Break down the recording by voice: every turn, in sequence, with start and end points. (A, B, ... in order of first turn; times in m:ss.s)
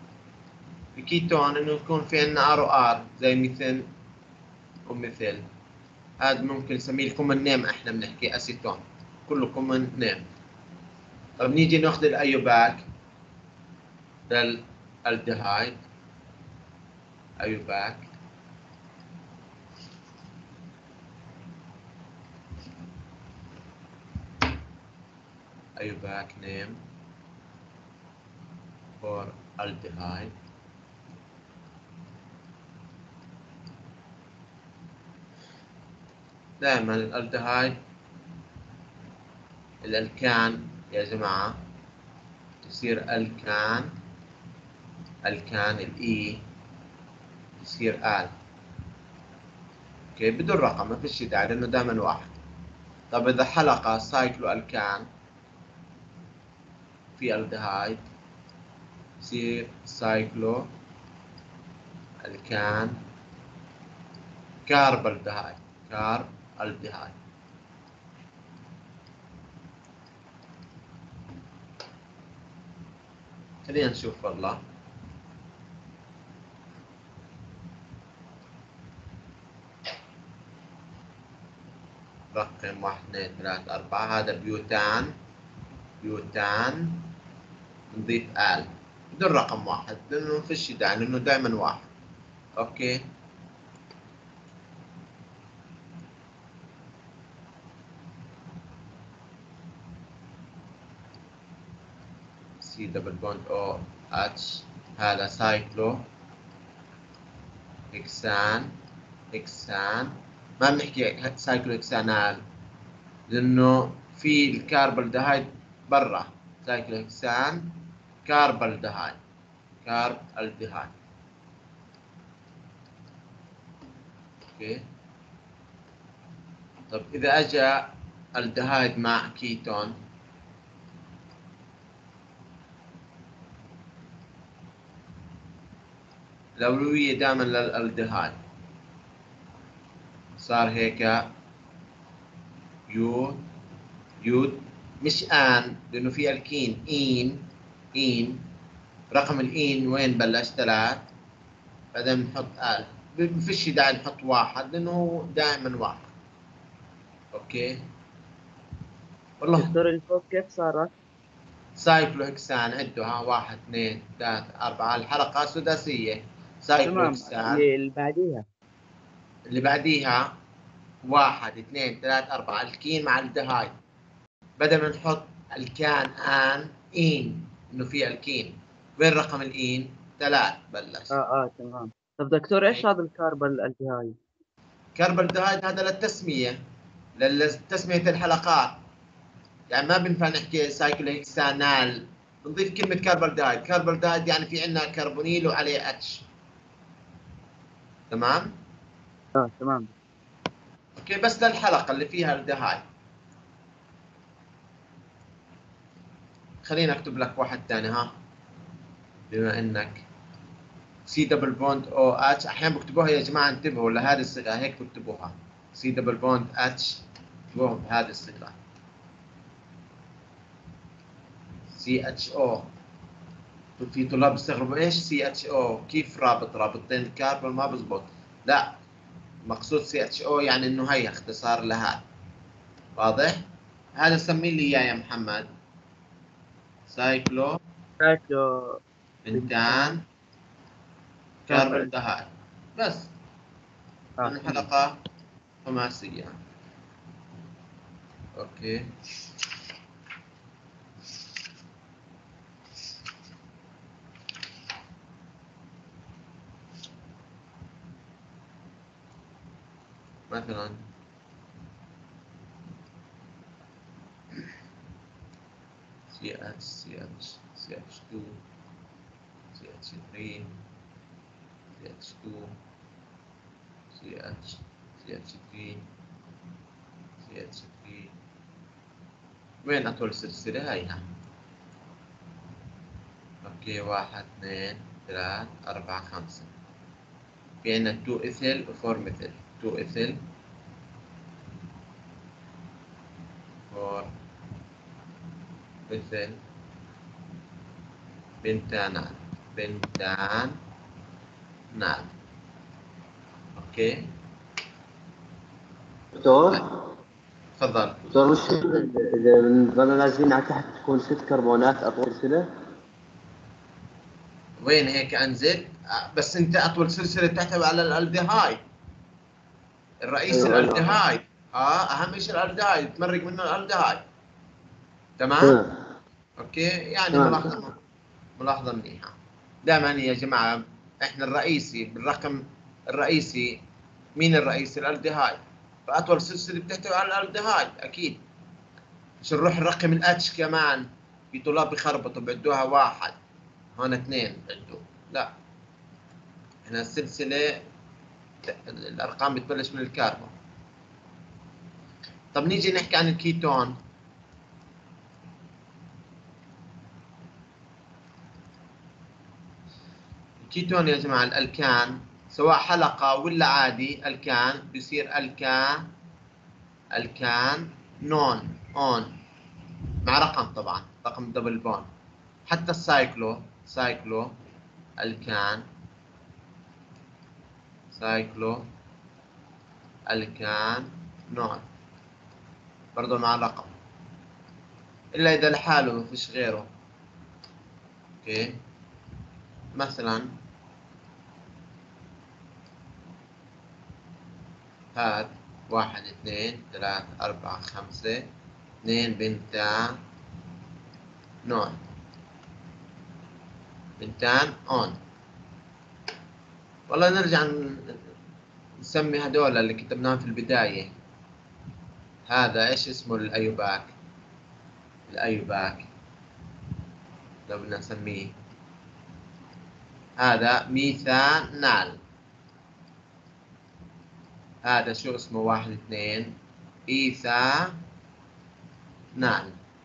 0:01.0-0:03.8 A
0:04.9-0:05.4 A
0:06.2-0:10.2 A
0:11.4-0:12.8 A
0:14.3-0:15.8 A
0:17.4-0:18.1 A
0:25.8-0:26.8 A
0:29.0-0:30.3 A
0:36.6-0:37.8 A
0:39.8-0:41.6 A
0:42.6-0:43.9 A
0:45.2-0:46.4 A
0:47.6-0:48.3 A
0:50.2-0:52.4 A
0:53.1-0:55.0 A
0:57.2-0:58.0 A
0:59.2-1:00.7 A
1:02.2-1:03.0 A
1:04.7-1:07.2 A
1:13.6-1:14.6 A
1:22.3-1:25.1 A
1:26.0-1:27.1 A
1:27.9-1:31.9 A
1:32.6-1:33.0 A
1:42.6-1:46.0 A
1:47.9-1:48.7 A
1:49.3-1:52.4 A
1:53.3-1:59.2 A
1:59.8-2:00.9 A
2:04.5-2:04.8 A
2:06.9-2:10.0 A
2:16.6-2:18.4 A
2:20.4-2:21.2 A
2:22.9-2:23.4 A
2:24.2-2:28.4 A
2:29.1-2:31.1 A
2:31.9-2:36.1 A
2:37.3-2:37.8 A
2:39.4-2:39.7 A
2:39.6-2:40.9 B
2:41.8-2:47.6 A
2:46.8-2:48.4 B
2:49.5-2:50.3 A
2:51.1-2:53.7 A
2:54.6-3:01.1 A
3:01.1-3:04.2 B
3:05.0-3:06.6 A
3:07.2-3:08.8 A
3:09.7-3:16.2 A
3:18.1-3:18.5 A
3:19.4-3:19.9 B
3:21.0-3:22.8 A
3:26.6-3:28.1 A
3:29.3-3:30.0 A
3:31.1-3:38.6 A
3:41.8-3:42.7 A
3:43.8-3:48.7 A
3:49.5-3:52.0 A
3:53.0-3:53.4 A
3:54.0-3:55.5 A
3:56.9-3:57.6 A
3:58.0-3:58.8 B
3:59.2-4:00.0 A
3:59.3-4:00.0 B
4:01.5-4:03.1 A
4:01.5-4:01.9 B
4:04.2-4:04.7 B
4:04.2-4:05.0 A
4:05.6-4:06.4 A
4:08.4-4:08.9 A
4:20.3-4:20.8 A
4:26.1-4:28.4 A
4:29.5-4:30.5 A
4:31.8-4:32.5 A
4:34.0-4:35.8 A
4:37.2-4:38.1 A
4:39.6-4:41.0 A
4:43.4-4:46.5 A
4:47.6-4:50.2 A
4:53.7-4:54.1 A
4:55.9-4:56.4 A
4:58.4-5:00.6 A
5:01.7-5:02.1 A
5:03.6-5:04.0 A
5:06.2-5:06.9 C
5:07.6-5:08.1 A
5:08.1-5:12.5 C
5:14.6-5:18.6 A
5:20.0-5:24.0 A
5:20.3-5:21.0 C
5:25.2-5:25.6 A
5:25.4-5:25.8 C
5:26.4-5:27.7 A
5:27.1-5:27.6 C
5:28.4-5:29.1 A
5:29.6-5:33.6 A
5:34.2-5:38.2 A
5:39.2-5:43.2 A
5:43.8-5:45.3 A
5:46.6-5:47.6 A
5:48.4-5:50.3 A
5:52.3-5:53.8 A
6:00.4-6:05.8 A
6:06.9-6:09.1 A
6:10.0-6:11.9 A
6:12.5-6:14.3 A
6:15.0-6:15.6 A
6:18.0-6:18.6 A
6:20.1-6:21.7 A
6:23.0-6:23.7 A
6:25.1-6:26.7 A
6:28.2-6:28.5 A
6:29.8-6:30.3 A
6:35.0-6:38.2 A
6:38.8-6:40.0 A
6:41.4-6:41.8 A
6:44.0-6:45.0 A
6:46.9-6:48.0 A
6:48.8-6:50.9 A
6:52.3-6:53.9 A
6:55.1-6:55.9 A
6:57.5-6:58.3 A
7:00.2-7:02.0 A
7:04.6-7:06.3 A
7:06.9-7:07.8 A
7:09.2-7:09.6 A